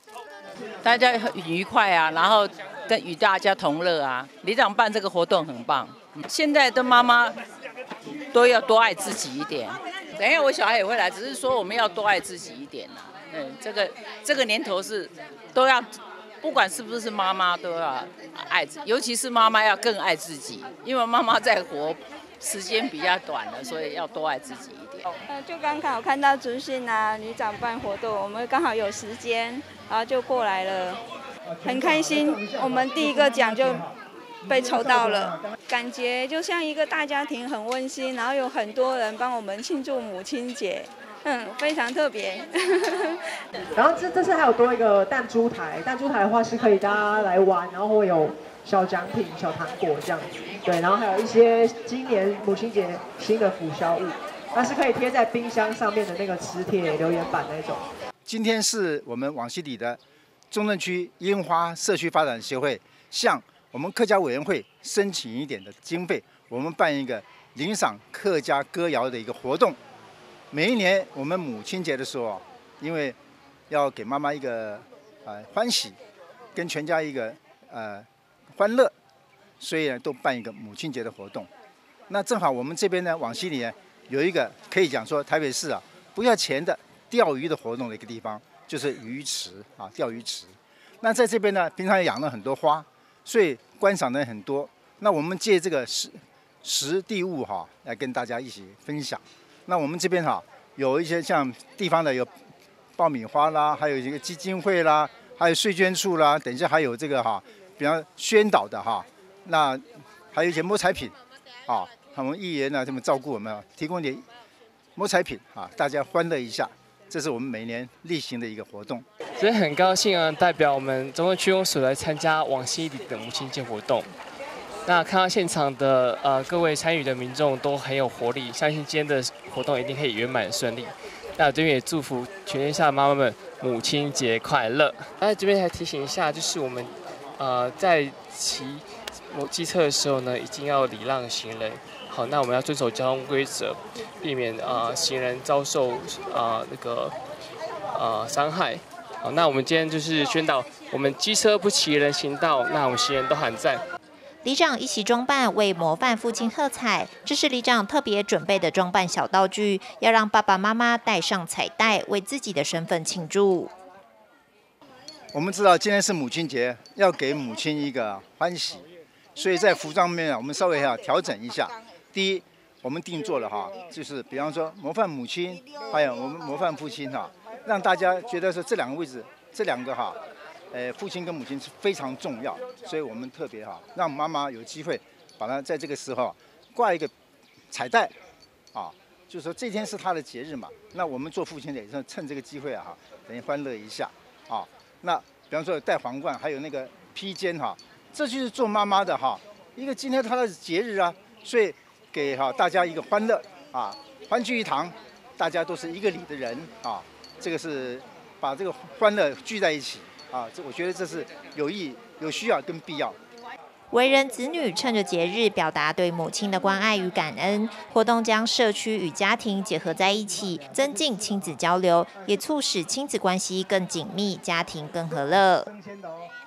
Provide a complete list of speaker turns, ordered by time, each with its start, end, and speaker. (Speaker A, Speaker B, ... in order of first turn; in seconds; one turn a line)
Speaker A: 0.8-7.4
Speaker A: 8.3-25.1
Speaker B: 25.3-31.0
Speaker C: 31.5-33.9
Speaker B: 31.6-33.9
Speaker C: 34.4-35.5
Speaker B: 34.4-43.2
Speaker D: 43.8-57.9
Speaker C: 58.3-60.0
Speaker C: 60.5-69.8
Speaker C: 70.5-73.2
Speaker C: 73.7-76.0
Speaker C: 76.5-78.9
Speaker C: 79.6-81.5
Speaker C: 82.1-102.3
Speaker C: 103.0-114.3
Speaker C: 115.0-119.0
Speaker E: 119.4-124.1
Speaker E: 124.8-147.2
Speaker E: 147.9-153.8
Speaker F: 154.4-163.7
Speaker C: 165.3-180.2
Speaker C: 180.7-187.1
Speaker C: 187.7-188.1
Speaker C: 188.7-213.2
Speaker F: 213.9-225.7